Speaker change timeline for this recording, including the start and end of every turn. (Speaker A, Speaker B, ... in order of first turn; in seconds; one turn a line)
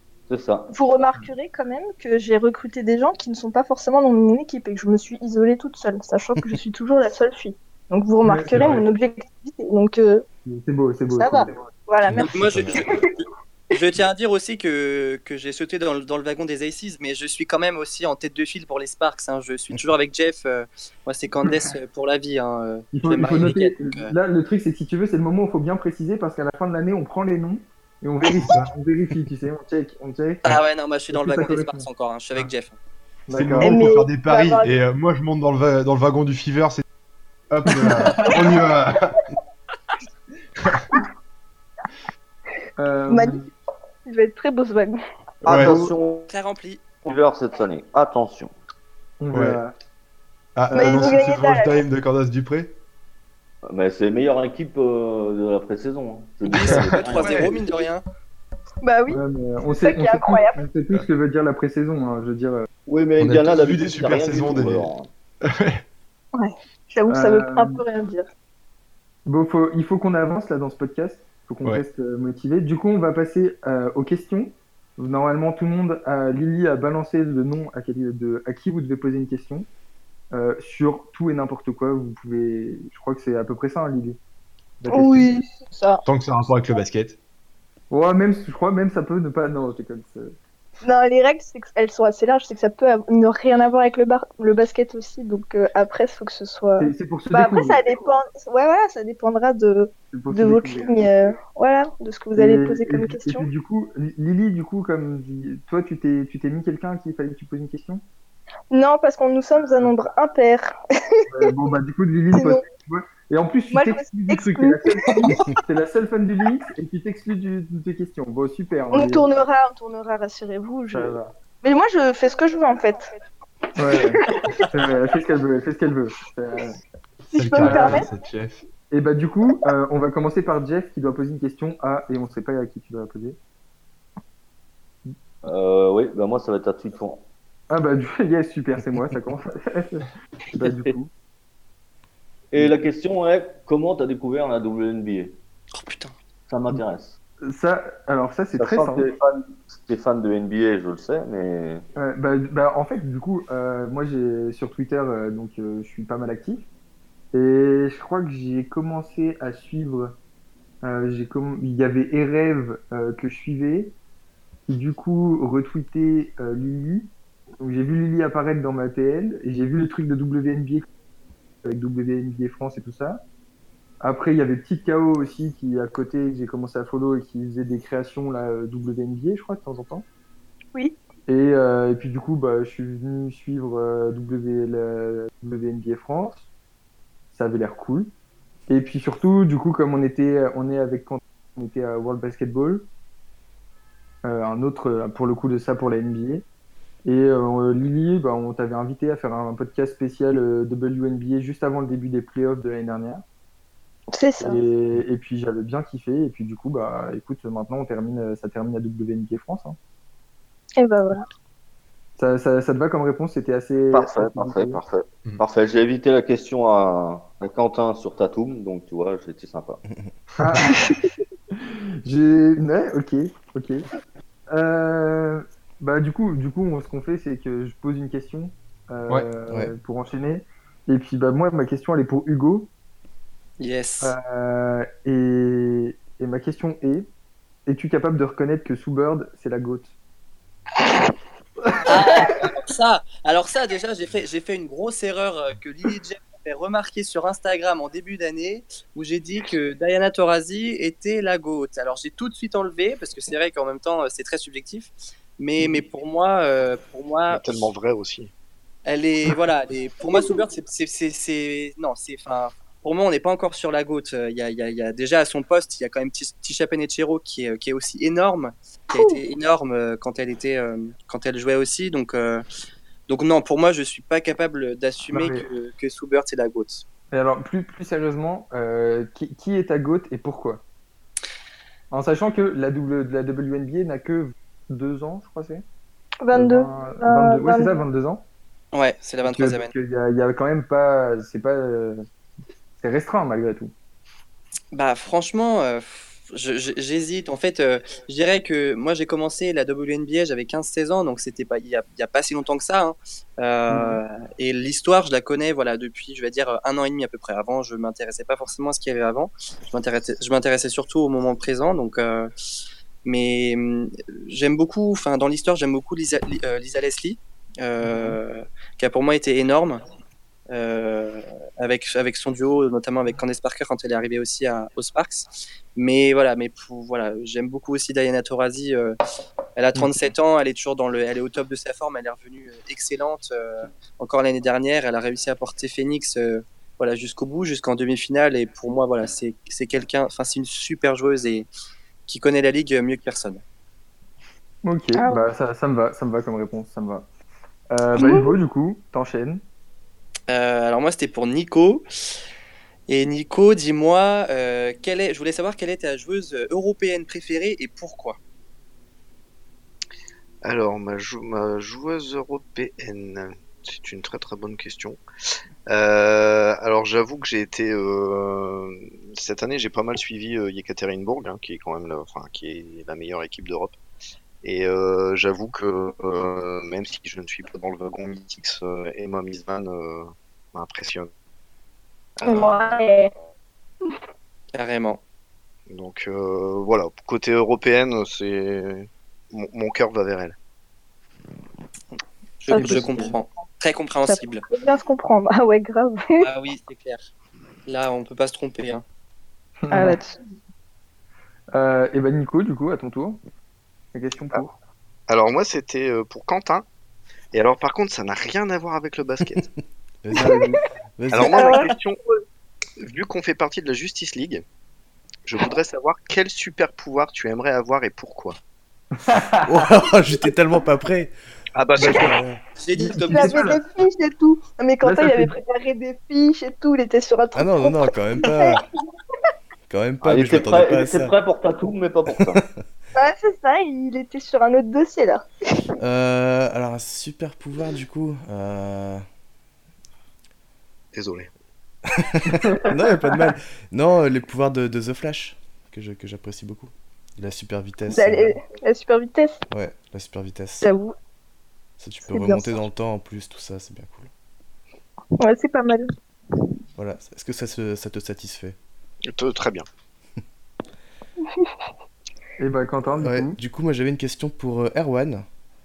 Speaker A: 0.3-0.7
Speaker B: 0.7-10.2
Speaker C: 8.2-8.8
Speaker D: 8.5-8.8
Speaker C: 10.4-11.7
Speaker B: 11.1-13.1
Speaker D: 12.1-12.8
Speaker E: 12.2-12.9
Speaker E: 13.7-24.1
Speaker C: 22.9-30.4
Speaker D: 28.3-28.7
Speaker E: 30.4-32.8
Speaker C: 31.1-31.9
Speaker C: 33.3-33.8
Speaker D: 33.3-36.8
Speaker B: 33.6-34.8
Speaker D: 37.5-39.2
Speaker C: 37.8-38.4
Speaker D: 40.6-40.9
Speaker C: 42.8-43.5
Speaker B: 43.1-43.4
Speaker B: 44.1-45.0
Speaker D: 45.4-45.8
Speaker A: 45.5-46.3
Speaker C: 45.5-45.9
Speaker E: 46.3-46.8
Speaker A: 47.0-48.5
Speaker C: 49.2-49.7
Speaker D: 49.3-49.6
Speaker D: 50.6-52.8
Speaker C: 50.7-51.2
Speaker B: 50.7-51.9
Speaker A: 53.7-57.6
Speaker E: 56.4-58.0
Speaker D: 56.6-57.5
Speaker B: 58.8-59.2
Speaker C: 59.1-62.7
Speaker B: 59.7-60.6
Speaker A: 62.9-65.1
Speaker D: 63.2-64.9
Speaker D: 65.4-65.8
Speaker B: 66.3-68.3
Speaker C: 67.1-67.8
Speaker C: 69.3-79.7
Speaker C: 80.3-84.2
Speaker C: 84.8-85.3
Speaker B: 84.9-86.0
Speaker D: 86.0-87.2
Speaker C: 87.9-90.3
Speaker B: 90.8-103.5
Speaker C: 96.8-97.8
Speaker C: 100.1-101.3
Speaker C: 102.4-108.0
Speaker B: 108.7-111.3
Speaker C: 111.3-119.3
Speaker B: 112.3-112.7
Speaker B: 113.7-115.4
Speaker B: 118.9-123.2
Speaker C: 120.9-121.3
Speaker C: 123.8-126.8
Speaker B: 123.9-124.7
Speaker B: 127.3-128.1
Speaker D: 127.3-128.7
Speaker C: 127.6-128.1
Speaker C: 128.9-133.4
Speaker A: 135.4-137.3
Speaker C: 137.7-141.1
Speaker A: 142.5-145.4
Speaker C: 142.6-142.8
Speaker E: 145.7-146.1
Speaker A: 146.5-147.2
Speaker C: 147.4-149.1
Speaker A: 148.5-151.8
Speaker C: 152.0-156.7
Speaker C: 157.3-160.2
Speaker C: 160.8-164.0
Speaker C: 164.7-170.9
Speaker C: 171.7-173.2
Speaker C: 174.0-180.1
Speaker C: 181.3-186.5
Speaker C: 187.3-188.1
Speaker C: 188.7-192.9
Speaker C: 194.2-196.4
Speaker C: 197.1-203.2
Speaker B: 204.1-204.6
Speaker C: 204.4-209.8
Speaker B: 210.8-211.3
Speaker C: 212.2-214.8
Speaker A: 213.9-219.8
Speaker F: 219.9-220.1
Speaker C: 220.4-220.8
Speaker B: 220.7-221.1
Speaker C: 221.5-223.9
Speaker C: 224.5-232.7
Speaker F: 229.5-229.7
Speaker E: 233.6-234.2
Speaker C: 234.0-237.1
Speaker C: 237.7-239.9
Speaker E: 241.9-257.7
Speaker B: 241.9-242.5
Speaker G: 257.3-258.3
Speaker E: 258.9-272.4
Speaker E: 273.1-276.9
Speaker C: 275.1-275.4
Speaker C: 277.1-280.6
Speaker C: 281.9-285.6
Speaker B: 286.2-287.8
Speaker C: 286.3-288.2
Speaker E: 288.7-289.7
Speaker C: 289.2-292.1
Speaker C: 292.8-293.7
Speaker E: 294.7-312.3
Speaker C: 303.7-304.0
Speaker E: 313.0-319.8
Speaker C: 317.8-318.2
Speaker E: 320.5-329.0
Speaker E: 329.6-341.5
Speaker D: 329.8-330.1
Speaker E: 342.1-343.4
Speaker C: 344.6-347.1
Speaker C: 347.7-349.4
Speaker B: 348.0-348.3
Speaker E: 350.3-351.9
Speaker E: 352.9-358.2
Speaker G: 360.4-365.0
Speaker G: 365.7-373.8
Speaker G: 374.4-381.1
Speaker G: 382.2-382.8
Speaker B: 382.2-383.1
Speaker E: 384.5-385.0
Speaker G: 385.7-390.4
Speaker E: 392.4-394.4
Speaker B: 392.5-393.1
Speaker C: 392.5-393.2
Speaker B: 394.1-396.2
Speaker E: 396.2-397.1
Speaker E: 397.7-398.8
Speaker C: 399.6-400.0
Speaker B: 399.7-400.2
Speaker C: 401.5-403.2
Speaker C: 403.9-404.6
Speaker G: 405.1-406.7
Speaker G: 407.3-409.5
Speaker F: 410.0-410.4
Speaker C: 410.1-410.6
Speaker F: 411.0-411.6
Speaker G: 411.1-412.0
Speaker B: 411.3-411.7
Speaker G: 412.8-414.4
Speaker G: 415.2-418.4
Speaker C: 419.0-419.6
Speaker F: 419.4-421.1
Speaker G: 421.6-422.2
Speaker F: 421.8-422.4
Speaker E: 422.6-423.5
Speaker C: 422.8-423.6
Speaker B: 423.1-428.6
Speaker C: 424.8-425.3
Speaker F: 427.4-428.6
Speaker F: 429.7-431.1
Speaker A: 430.0-432.4
Speaker F: 432.1-432.5
Speaker B: 432.9-435.2
Speaker F: 435.8-439.1
Speaker G: 440.9-441.3
Speaker F: 442.0-448.4
Speaker B: 447.9-449.4
Speaker F: 449.5-450.7
Speaker B: 450.6-450.9
Speaker F: 451.8-454.1
Speaker B: 452.1-452.6
Speaker B: 455.2-455.9
Speaker F: 456.8-458.6
Speaker G: 459.1-459.7
Speaker B: 461.2-461.6
Speaker C: 462.4-463.4
Speaker F: 463.0-465.3